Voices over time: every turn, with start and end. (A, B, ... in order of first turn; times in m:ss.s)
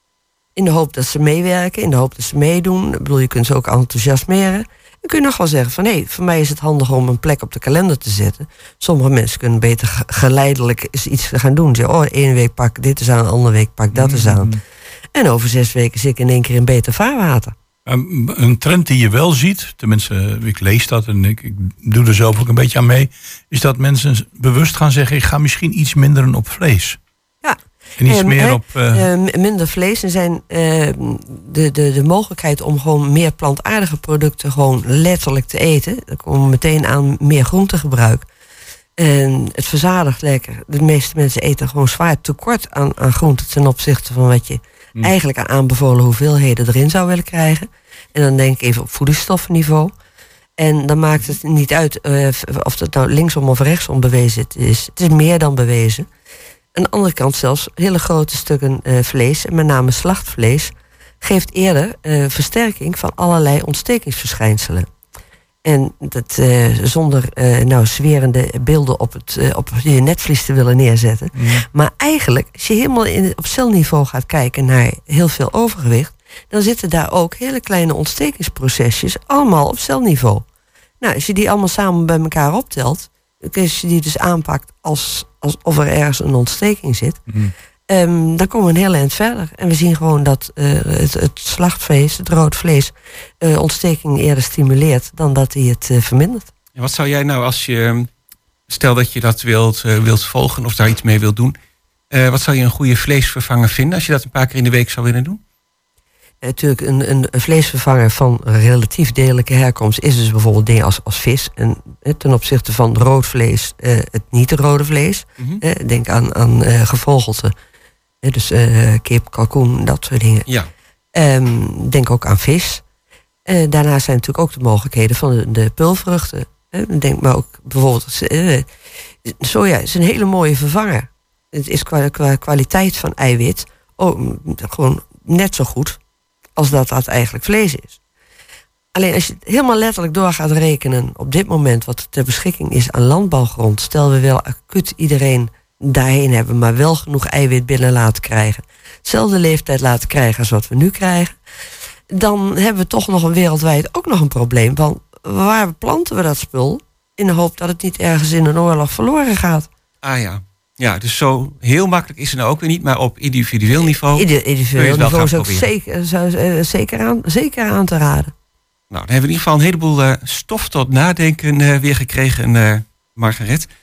0:00.6-0:14.6 A
0:13.9-0:14.6 B
0:15.1-0:17.5 A
0:17.8-0:27.0 B
0:27.4-0:38.2 A
0:28.0-0:29.0 B
0:39.0-0:49.9 A
0:50.6-0:56.1 A
0:56.7-1:04.9 A
1:05.6-1:20.4 A
1:11.4-1:11.6 B
1:21.0-1:27.2 A
1:27.9-1:36.5 A
1:36.8-1:38.1 C
1:38.7-1:41.5 C
1:42.1-1:45.4 C
1:46.4-1:57.5 A
1:58.2-2:00.5 A
2:01.1-2:02.8 A
2:03.4-2:08.7 A
2:09.2-2:16.0 A
2:16.6-2:18.0 A
2:18.9-2:31.4 A
2:32.1-2:39.7 A
2:40.0-2:45.7 C
2:44.1-2:48.3 A
2:48.9-2:53.7 C